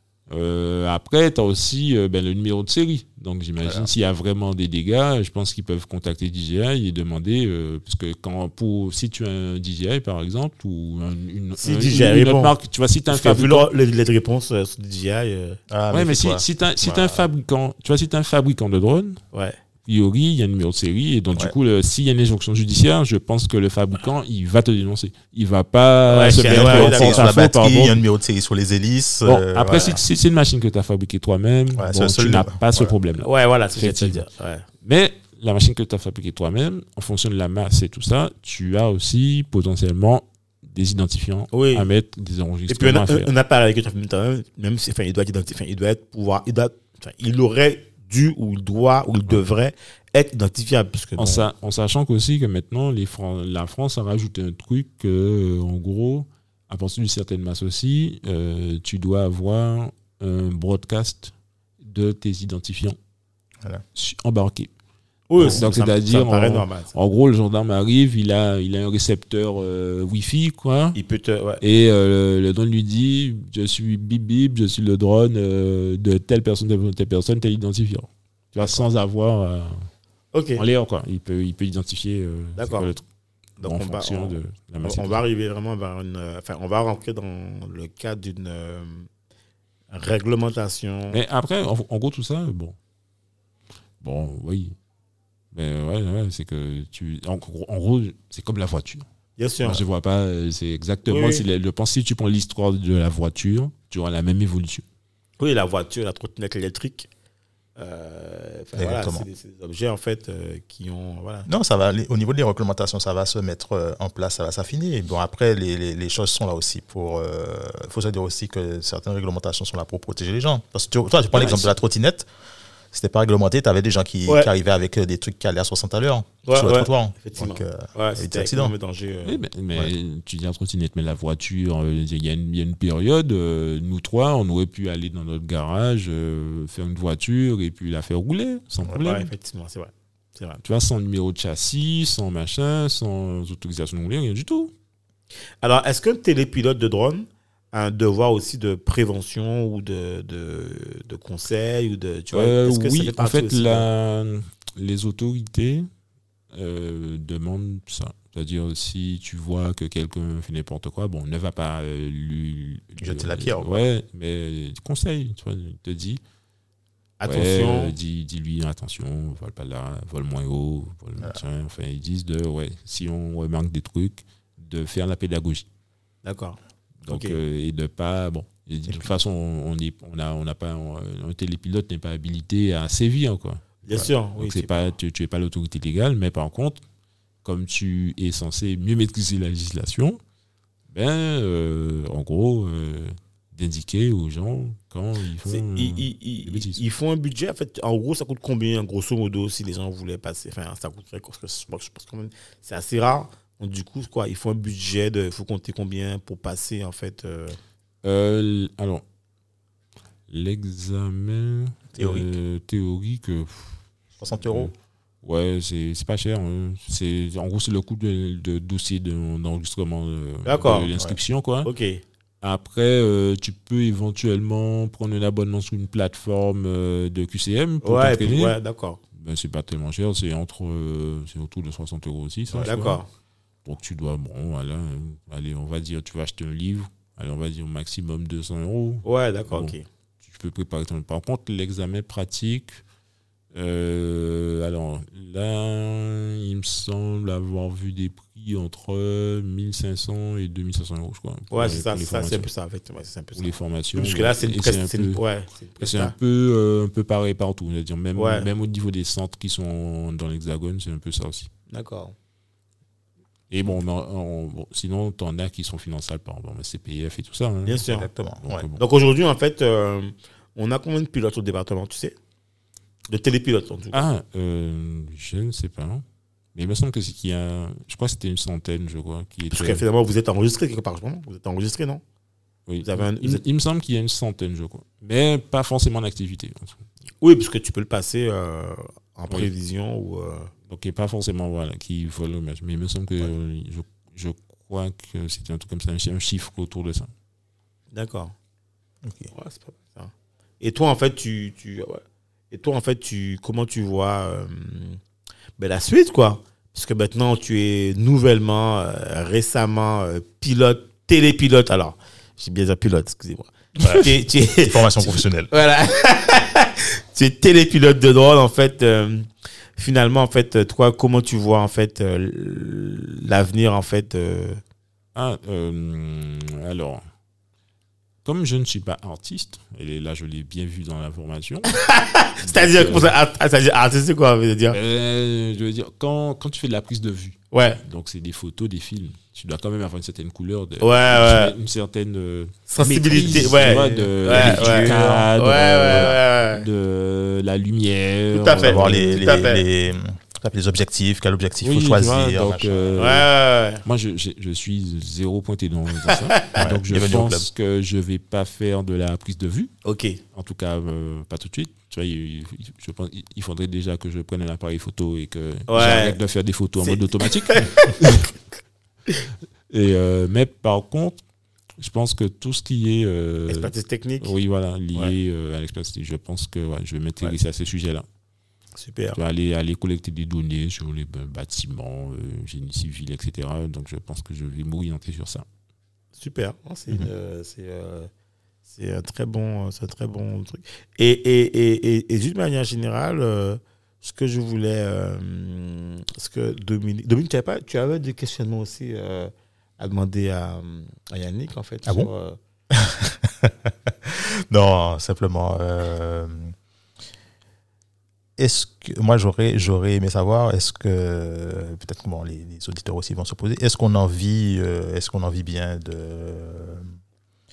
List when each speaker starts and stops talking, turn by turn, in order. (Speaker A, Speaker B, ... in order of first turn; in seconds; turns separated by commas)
Speaker A: 0.3-13.7, Speaker B: 3.6-3.9, Speaker C: 11.6-12.5, Speaker C: 13.1-15.6, Speaker B: 15.7-17.2, Speaker A: 15.9-19.2, Speaker A: 19.8-28.0, Speaker C: 26.1-27.3, Speaker B: 26.4-30.0, Speaker A: 29.2-34.2, Speaker B: 31.7-32.9, Speaker C: 33.2-34.6, Speaker A: 34.8-43.3, Speaker C: 41.5-41.9, Speaker C: 42.7-51.5, Speaker A: 51.2-63.0, Speaker A: 63.9-64.7, Speaker C: 65.3-66.9, Speaker A: 65.4-71.0, Speaker C: 70.9-71.6, Speaker A: 71.6-79.9, Speaker C: 80.3-80.6, Speaker A: 80.5-83.0, Speaker C: 82.5-82.9, Speaker C: 83.6-89.1, Speaker A: 83.6-85.2, Speaker C: 89.9-91.2, Speaker A: 91.1-92.7, Speaker A: 94.0-94.7, Speaker A: 95.5-99.0, Speaker C: 99.4-99.8, Speaker A: 99.6-104.8, Speaker C: 101.1-101.4, Speaker C: 105.4-107.1, Speaker C: 107.8-111.5, Speaker B: 108.8-109.3, Speaker B: 111.5-122.3, Speaker B: 122.9-128.7, Speaker C: 126.4-129.4, Speaker A: 129.2-139.3, Speaker C: 139.0-140.6, Speaker A: 140.6-144.7, Speaker C: 145.6-153.9, Speaker A: 152.3-155.9, Speaker A: 156.5-166.2, Speaker B: 163.0-163.8, Speaker C: 167.2-167.9, Speaker A: 167.3-175.7, Speaker C: 176.2-177.4, Speaker A: 177.0-183.8, Speaker C: 183.8-184.7, Speaker A: 184.4-186.8, Speaker A: 187.4-190.2, Speaker A: 190.9-196.8, Speaker C: 195.5-207.6, Speaker A: 208.0-209.0, Speaker A: 210.3-213.8, Speaker C: 212.0-212.2, Speaker B: 214.2-214.7, Speaker A: 214.4-221.7, Speaker C: 220.4-220.9, Speaker C: 221.6-222.0, Speaker A: 222.4-228.6, Speaker C: 227.8-229.0, Speaker A: 229.1-233.0, Speaker C: 232.6-233.1, Speaker A: 233.6-242.8, Speaker C: 239.0-239.8, Speaker A: 243.5-252.5, Speaker C: 251.5-256.1, Speaker A: 253.3-255.2, Speaker A: 255.8-261.5, Speaker C: 258.1-258.5, Speaker C: 261.7-262.1, Speaker A: 263.5-267.9, Speaker C: 267.6-268.1, Speaker B: 267.9-268.6, Speaker A: 268.4-268.8, Speaker C: 268.8-272.1, Speaker C: 273.1-274.0, Speaker A: 273.9-276.0, Speaker A: 276.5-279.8, Speaker C: 279.5-282.0, Speaker A: 282.7-286.8, Speaker C: 282.8-283.4, Speaker C: 287.2-290.5, Speaker A: 290.7-297.1, Speaker C: 297.9-298.3, Speaker B: 299.0-299.3, Speaker C: 299.3-305.0, Speaker C: 305.6-324.6, Speaker B: 313.8-315.5, Speaker A: 325.1-327.0, Speaker A: 328.2-331.8, Speaker C: 331.7-334.8, Speaker A: 332.4-333.1, Speaker A: 334.7-349.1, Speaker C: 337.5-337.8, Speaker C: 340.8-341.5, Speaker C: 342.7-346.6, Speaker B: 344.3-345.0, Speaker C: 348.3-349.6, Speaker B: 348.6-352.9, Speaker A: 351.6-353.3, Speaker C: 352.9-353.8, Speaker A: 353.8-359.7, Speaker C: 356.1-356.5, Speaker B: 356.6-357.5, Speaker C: 359.8-360.2, Speaker A: 360.3-368.3, Speaker C: 365.7-366.2, Speaker C: 366.8-368.2, Speaker A: 369.7-371.2, Speaker A: 371.8-378.0, Speaker C: 373.5-374.3, Speaker C: 378.8-379.2, Speaker A: 379.1-385.4, Speaker C: 386.2-388.1, Speaker C: 388.7-402.4, Speaker B: 402.7-406.5, Speaker B: 408.4-416.9